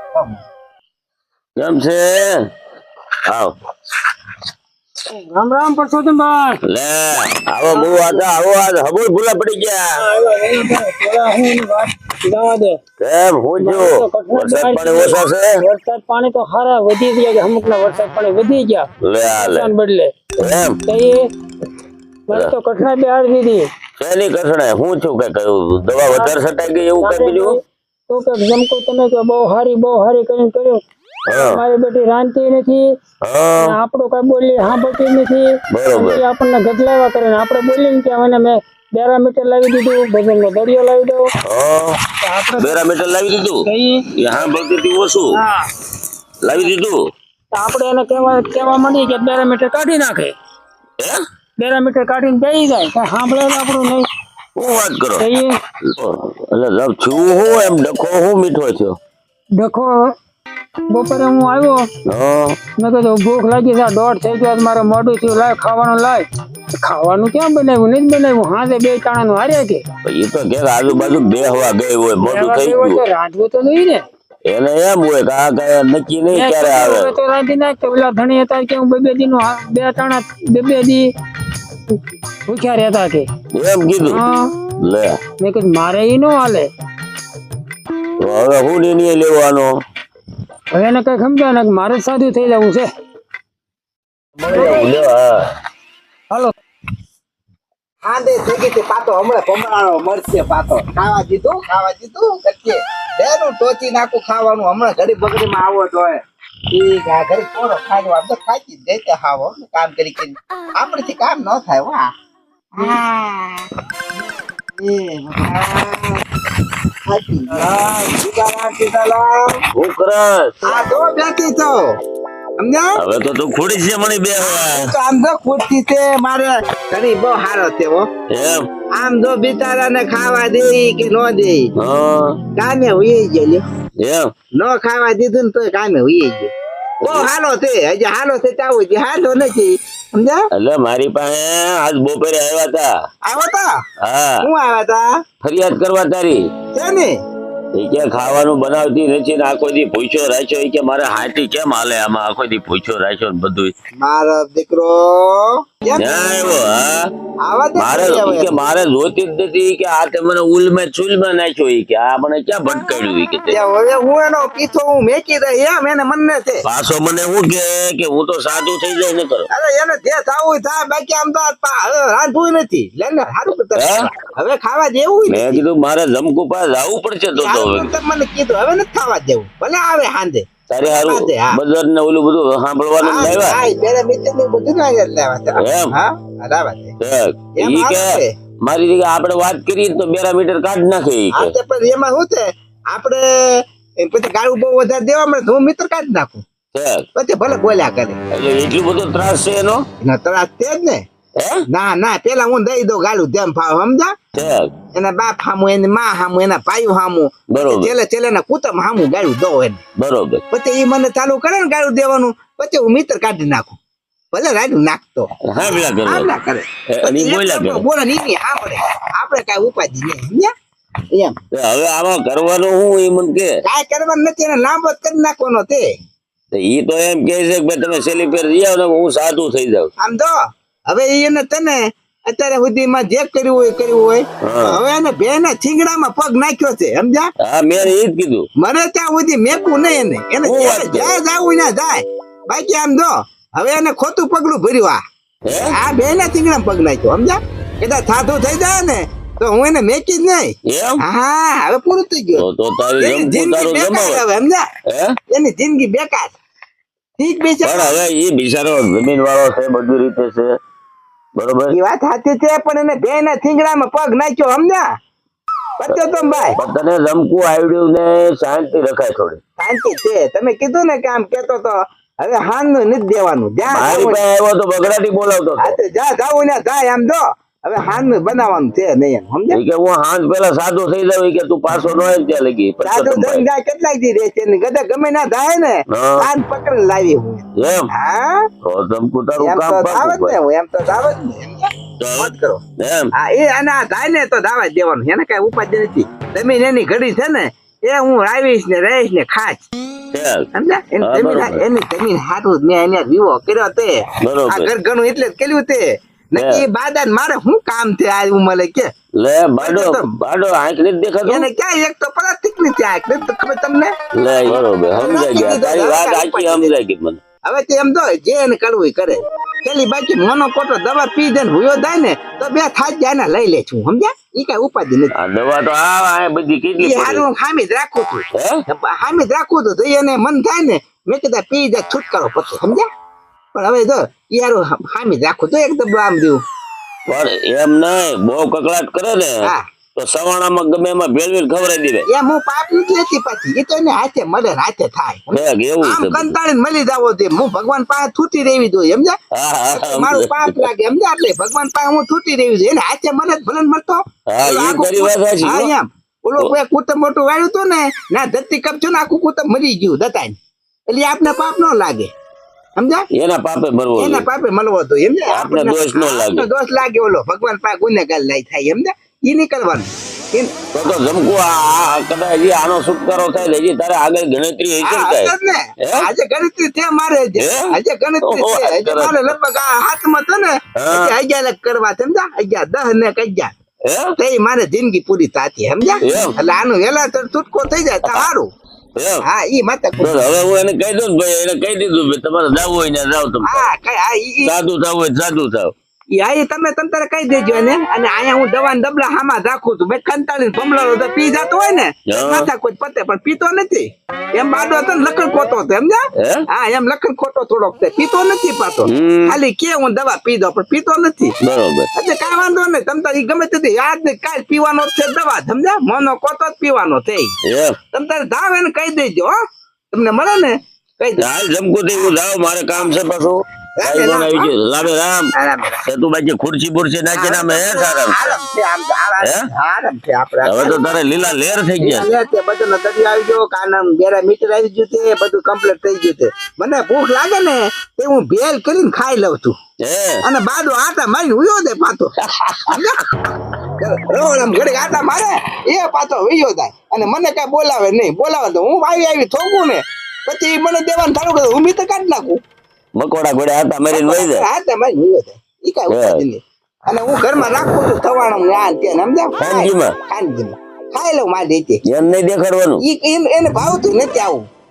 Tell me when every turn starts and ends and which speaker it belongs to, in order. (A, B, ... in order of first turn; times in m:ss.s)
0:00.2-0:00.4 A
0:01.6-0:02.4 B
0:03.3-0:03.5 B
0:05.3-0:06.6 C
0:06.7-0:10.0 B
0:07.7-0:08.3 C
0:10.0-0:12.8 C
0:13.0-0:15.6 B
0:13.6-0:20.1 C
0:19.0-0:19.7 B
0:20.4-0:20.8 B
0:20.9-0:21.3 C
0:22.3-0:23.7 C
0:24.0-0:27.6 B
0:27.0-0:27.6 C
0:28.1-0:32.9 C
0:31.3-0:31.6 B
0:33.2-0:33.8 B
0:33.6-0:41.3 C
0:35.7-0:36.2 B
0:41.5-0:42.0 B
0:42.2-0:42.8 C
0:42.6-0:45.4 B
0:43.7-0:44.0 C
0:45.3-0:45.6 C
0:46.4-0:47.0 B
0:47.5-0:50.3 C
0:51.6-0:54.1 C
0:54.6-0:55.3 B
0:55.2-0:55.5 C
0:55.8-0:59.0 B
0:59.6-0:59.9 C
1:00.9-1:01.9 C
1:02.1-1:02.6 B
1:02.8-1:06.2 C
1:06.8-1:09.8 C
1:10.0-1:13.0 B
1:12.2-1:14.0 C
1:14.5-1:17.1 B
1:16.3-1:21.1 C
1:22.5-1:23.3 C
1:23.5-1:24.2 B
1:24.0-1:24.5 C
1:24.8-1:25.2 B
1:25.4-1:26.7 C
1:28.2-1:29.8 B
1:30.7-1:32.9 C
1:34.4-1:35.4 B
1:34.5-1:35.0 C
1:38.0-1:46.2 A
1:46.7-1:52.1 A
1:52.8-1:53.7 A
1:54.8-1:56.2 A
1:57.1-1:59.6 A
1:57.6-1:57.8 B
1:59.7-2:00.8 B
2:00.6-2:01.9 A
2:02.6-2:03.0 A
2:03.0-2:04.9 B
2:04.4-2:08.1 A
2:08.3-2:08.7 B
2:09.0-2:11.7 A
2:11.8-2:12.4 B
2:12.6-2:13.6 A
2:14.0-2:14.3 B
2:14.6-2:16.5 A
2:17.0-2:17.3 B
2:17.0-2:20.5 A
2:20.5-2:22.9 B
2:23.2-2:23.8 A
2:24.0-2:24.5 B
2:24.4-2:25.1 A
2:25.4-2:26.5 B
2:26.7-2:27.2 A
2:27.8-2:33.7 B
2:34.0-2:36.5 A
2:36.0-2:37.1 B
2:37.4-2:38.6 A
2:37.8-2:43.6 B
2:43.5-2:46.6 A
2:46.6-2:49.5 B
2:49.5-2:55.6 A
2:53.8-2:54.1 B
2:55.3-2:57.9 B
2:57.4-3:01.6 A
3:00.7-3:03.6 B
3:03.0-3:06.9 A
3:05.6-3:05.9 B
3:07.0-3:11.5 B
3:07.6-3:08.3 A
3:11.3-3:16.4 A
3:16.7-3:17.1 B
3:17.2-3:18.2 A
3:18.3-3:19.8 B
3:20.0-3:21.0 A
3:21.4-3:21.6 B
3:21.7-3:24.1 A
3:24.4-3:24.7 B
3:25.0-3:29.8 A
3:27.5-3:27.9 B
3:30.0-3:30.4 B
3:30.5-3:33.8 A
3:34.3-3:40.5 A
3:35.5-3:36.3 B
3:36.9-3:37.8 B
3:41.1-3:41.4 A
3:41.5-3:43.6 B
3:43.6-3:45.9 A
3:46.5-3:49.9 B
3:50.0-3:50.4 A
3:50.9-3:57.3 A
3:54.4-3:54.8 B
3:57.4-3:58.5 B
3:58.6-4:12.4 A
4:00.4-4:01.2 B
4:05.5-4:05.8 B
4:10.7-4:11.0 B
4:12.4-4:14.2 B
4:13.0-4:14.7 A
4:14.9-4:15.2 B
4:15.3-4:16.3 A
4:17.2-4:18.0 A
4:17.6-4:20.5 B
4:21.4-4:21.8 B
4:21.7-4:24.9 A
4:25.8-4:26.6 A
4:26.6-4:29.4 B
4:29.6-4:34.2 A
4:33.7-4:35.8 B
4:35.6-4:39.6 A
4:39.5-4:43.4 B
4:42.8-4:48.5 A
4:45.9-4:46.3 B
4:47.6-4:47.9 B
4:48.6-4:50.4 B
4:49.4-4:52.6 A
4:52.0-4:53.1 B
4:53.2-4:59.7 A
5:00.1-5:00.5 B
5:00.5-5:08.9 A
5:01.0-5:01.6 B
5:04.2-5:04.7 B
5:06.4-5:06.6 B
5:09.2-5:11.5 B
5:09.6-5:10.1 A
5:11.3-5:13.9 A
5:14.2-5:17.2 B
5:14.9-5:16.7 A
5:17.4-5:25.1 A
5:25.2-5:27.2 B
5:26.8-5:32.9 A
5:28.3-5:28.6 B
5:33.5-5:36.4 A
5:37.1-5:42.1 B
5:42.1-5:49.2 A
5:45.3-5:46.3 B
5:49.3-5:50.7 B
5:49.7-6:00.4 A
5:54.3-5:55.7 B
6:00.9-6:02.1 A
6:02.8-6:03.1 A
6:03.1-6:04.3 B
6:04.0-6:10.5 A
6:05.3-6:06.5 B
6:10.7-6:16.1 B
6:14.8-6:23.5 A
6:17.4-6:19.3 B
6:20.8-6:21.1 B
6:23.9-6:24.1 B
6:24.2-6:28.5 A
6:26.0-6:26.3 B
6:29.0-6:29.2 B
6:29.2-6:30.2 A
6:30.0-6:33.7 B
6:33.4-6:34.5 A
6:34.4-6:35.7 B
6:36.1-6:51.4 A
6:42.1-6:42.5 B
6:48.9-6:49.4 B
6:51.4-6:51.9 B
6:52.0-6:57.4 A
6:57.4-6:57.8 B
6:57.9-6:59.4 A
6:59.9-7:01.3 A
7:01.2-7:05.3 B
7:03.8-7:04.5 A
7:05.4-7:05.8 A
7:05.9-7:08.4 B
7:07.1-7:11.0 A
7:09.2-7:09.5 B
7:10.4-7:12.1 B
7:11.8-7:19.6 A
7:19.8-7:20.2 B
7:20.2-7:22.1 A
7:22.2-7:22.8 B
7:22.7-7:23.0 A
7:23.8-7:32.4 A
7:33.0-7:34.4 B
7:33.9-7:41.8 A
7:35.9-7:36.2 B
7:39.4-7:40.0 B
7:41.9-7:42.8 B
7:42.8-7:44.5 A